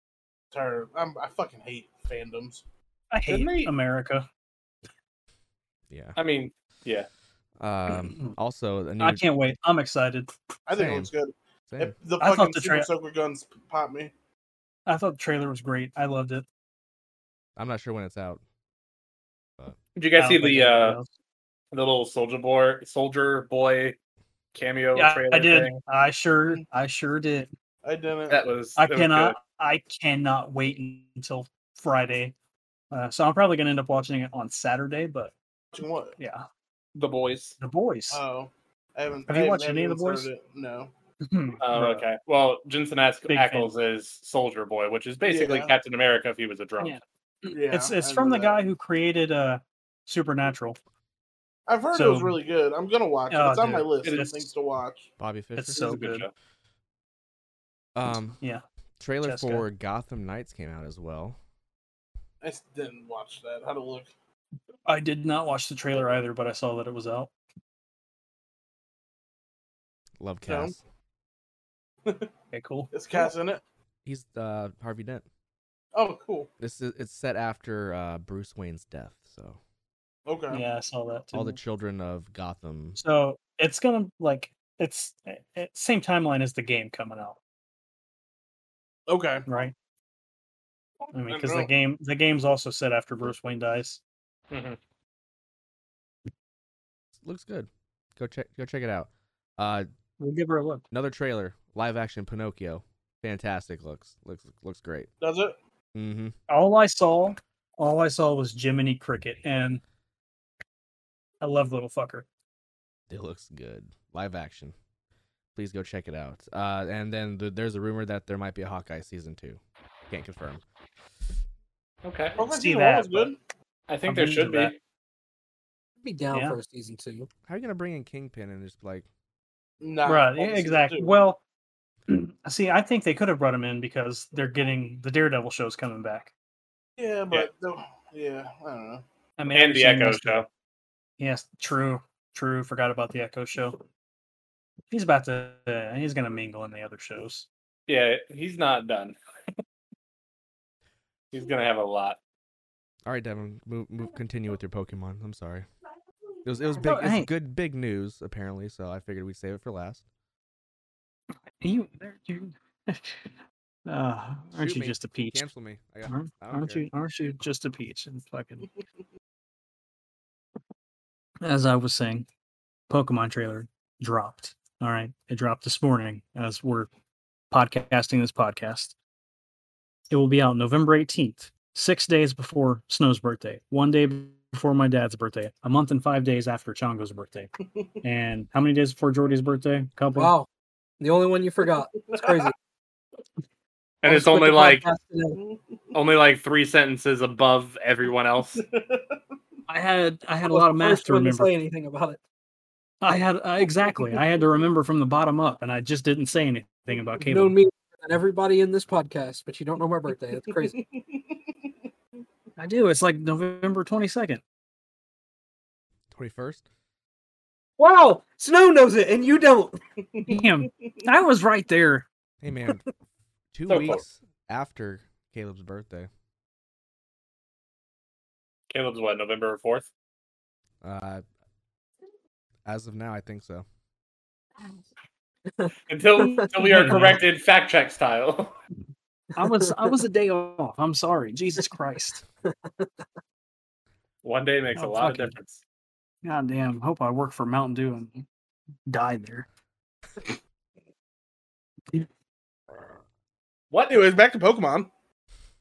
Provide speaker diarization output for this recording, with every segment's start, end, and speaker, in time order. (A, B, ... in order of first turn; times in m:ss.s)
0:00.5-0:02.6 A
0:03.1-0:04.3 B
0:03.3-0:03.7 C
0:05.9-0:06.2 D
0:06.2-0:07.1 C
0:07.6-0:09.2 D
0:08.1-0:08.4 B
0:09.0-0:10.3 B
0:10.7-0:14.1 A
0:10.7-0:11.1 D
0:11.7-0:12.0 D
0:12.2-0:12.9 B
0:14.9-0:16.4 B
0:17.6-0:18.4 D
0:20.0-0:21.0 C
0:20.2-0:21.1 B
0:21.7-0:24.0 C
0:24.5-0:25.8 C
0:25.0-0:27.5 B
0:27.8-0:28.4 A
0:28.3-0:29.4 C
0:28.8-0:32.3 B
0:32.9-0:35.3 B
0:35.7-0:36.2 A
0:36.2-0:36.4 B
0:37.0-0:37.6 C
0:37.6-0:38.2 B
0:38.1-0:40.9 A
0:39.3-0:40.3 B
0:41.2-0:42.1 B
0:41.6-0:47.0 C
0:43.3-0:43.7 B
0:45.2-0:45.7 A
0:46.8-0:50.8 B
0:47.5-0:48.6 A
0:51.7-0:55.1 A
0:51.9-0:52.4 B
0:53.3-0:54.5 B
0:55.2-0:55.9 D
0:55.6-0:56.3 B
0:55.8-0:56.3 C
0:58.0-0:58.4 D
0:59.0-1:01.4 D
0:59.2-0:59.6 B
1:02.4-1:04.1 A
1:04.9-1:07.3 B
1:10.2-1:10.8 D
1:10.5-1:10.7 A
1:12.5-1:13.3 B
1:12.9-1:13.6 A
1:14.0-1:15.2 D
1:15.9-1:16.5 A
1:16.6-1:19.6 D
1:20.3-1:20.6 A
1:20.5-1:21.6 B
1:21.3-1:23.0 D
1:23.0-1:27.4 B
1:29.1-1:29.5 A
1:29.5-1:29.7 B
1:31.1-1:34.0 B
1:31.3-1:31.7 A
1:34.5-1:34.8 C
1:37.2-1:39.9 D
1:40.2-1:40.8 B
1:40.9-1:45.1 D
1:45.2-1:45.6 A
1:45.9-1:46.4 D
1:46.5-1:49.8 B
1:51.4-1:52.3 B
1:53.1-1:54.8 D
1:55.6-2:00.6 D
2:02.0-2:02.4 C
2:02.4-2:03.4 A
2:02.5-2:03.3 B
2:03.9-2:04.8 C
2:04.1-2:04.7 B
2:06.0-2:07.3 E
2:06.3-2:06.6 B
2:07.5-2:09.1 D
2:09.8-2:11.2 A
2:10.1-2:11.4 B
2:12.1-2:16.3 B
2:17.0-2:19.0 A
2:19.4-2:20.5 B
2:19.5-2:20.5 C
2:21.2-2:23.8 B
2:24.9-2:27.5 B
2:27.9-2:29.2 C
2:31.3-2:32.2 C
2:33.1-2:35.7 D
2:36.4-2:40.0 D
2:36.8-2:37.3 B
2:41.6-2:43.3 B
2:43.9-2:45.5 B
2:44.6-2:46.9 D
2:46.1-2:48.7 B
2:51.4-2:52.3 B
2:52.9-2:56.9 B
2:57.5-2:59.0 B
3:00.1-3:07.5 B
3:08.0-3:10.3 B
3:10.2-3:10.5 E
3:11.0-3:12.5 E
3:12.1-3:12.5 A
3:14.0-3:14.8 C
3:14.0-3:15.4 E
3:15.9-3:18.6 C
3:18.6-3:19.2 A
3:19.7-3:21.5 B
3:20.5-3:22.2 E
3:23.0-3:27.6 B
3:27.2-3:30.8 E
3:32.6-3:34.4 B
3:36.1-3:36.6 D
3:37.8-3:39.8 E
3:40.3-3:42.1 B
3:42.4-3:42.9 D
3:43.5-3:46.1 D
3:43.7-3:44.0 C
3:48.7-3:49.9 C
3:50.8-3:51.2 D
3:52.7-3:53.6 D
3:55.6-3:57.0 E
3:55.9-3:58.5 C
3:56.6-3:57.2 B
3:59.4-4:02.2 B
4:04.2-4:05.6 C
4:04.8-4:05.3 B
4:06.2-4:08.3 B
4:08.9-4:09.5 B
4:13.7-4:14.0 C
4:13.9-4:14.9 A